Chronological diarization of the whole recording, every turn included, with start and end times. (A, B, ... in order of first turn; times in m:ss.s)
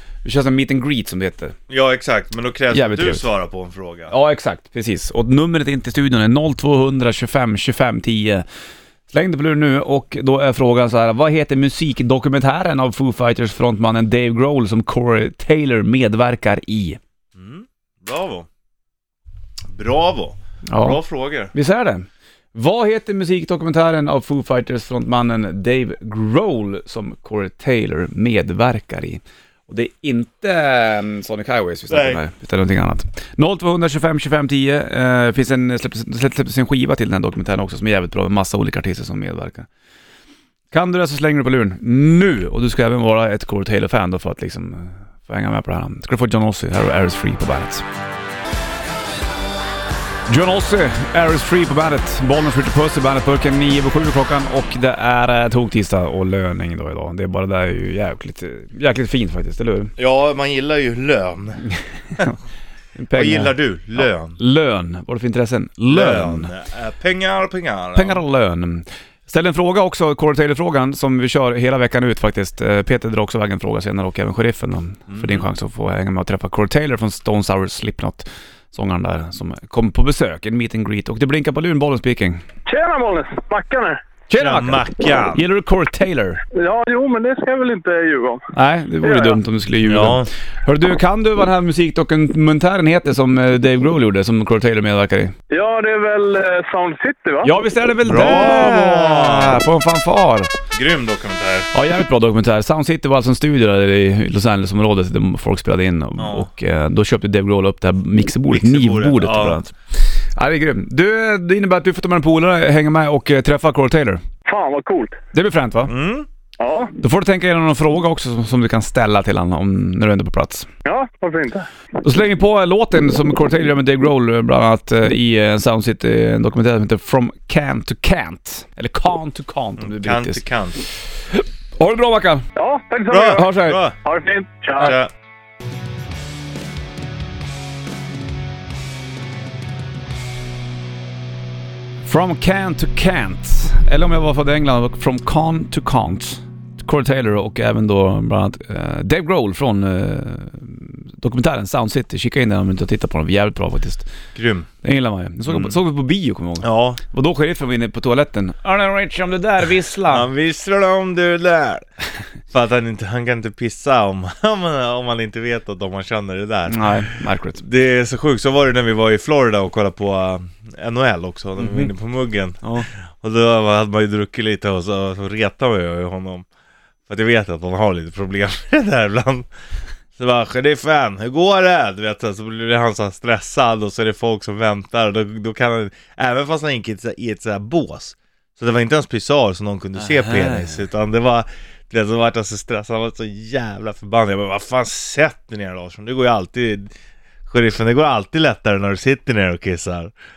0:00.2-0:01.5 A
0:01.7-0:04.1 B
0:02.7-0:03.2 A
0:04.1-0:08.4 A
0:09.1-0:17.0 A
0:17.3-0:18.5 B
0:19.7-0:21.5 B
0:20.7-0:21.0 A
0:21.5-0:39.7 A
0:31.9-0:32.2 B
0:40.7-0:47.8 A
0:50.3-0:59.9 A
1:00.0-1:02.3 B
1:03.0-1:06.5 A
1:03.1-1:04.4 B
1:05.9-1:08.2 B
1:07.9-1:22.4 A
1:15.1-1:15.4 B
1:22.7-1:24.0 C
1:24.3-1:26.4 A
1:24.4-1:25.4 B
1:26.5-1:28.4 C
1:28.5-1:35.3 A
1:29.0-1:29.4 C
1:29.8-1:30.3 B
1:35.5-1:37.6 C
1:37.4-1:40.5 A
1:38.0-1:39.6 B
1:40.7-1:41.7 B
1:41.7-1:49.7 A
1:46.2-1:46.5 B
1:48.5-1:49.6 B
1:50.3-1:54.2 A
1:54.5-1:55.2 C
1:55.3-1:55.9 A
1:55.9-1:56.3 B
1:56.6-1:56.9 C
1:57.0-2:00.7 A
2:00.8-2:01.7 C
2:02.0-2:10.4 A
2:09.8-2:10.8 B
2:11.3-2:12.4 A
2:12.6-2:13.5 C
2:13.1-2:14.0 B
2:13.3-2:13.8 A
2:14.0-2:14.9 C
2:14.8-2:15.1 B
2:22.0-2:34.1 A
2:34.3-2:34.7 B
2:34.8-2:40.2 A
2:35.5-2:35.8 B
2:36.6-2:37.0 B
2:40.1-2:41.8 B
2:42.5-2:56.4 B
2:46.7-2:47.6 A
2:51.6-2:51.9 A
2:52.6-2:52.9 A
2:57.1-2:59.5 B
3:00.2-3:16.9 B
3:10.0-3:10.8 A
3:17.5-3:20.1 B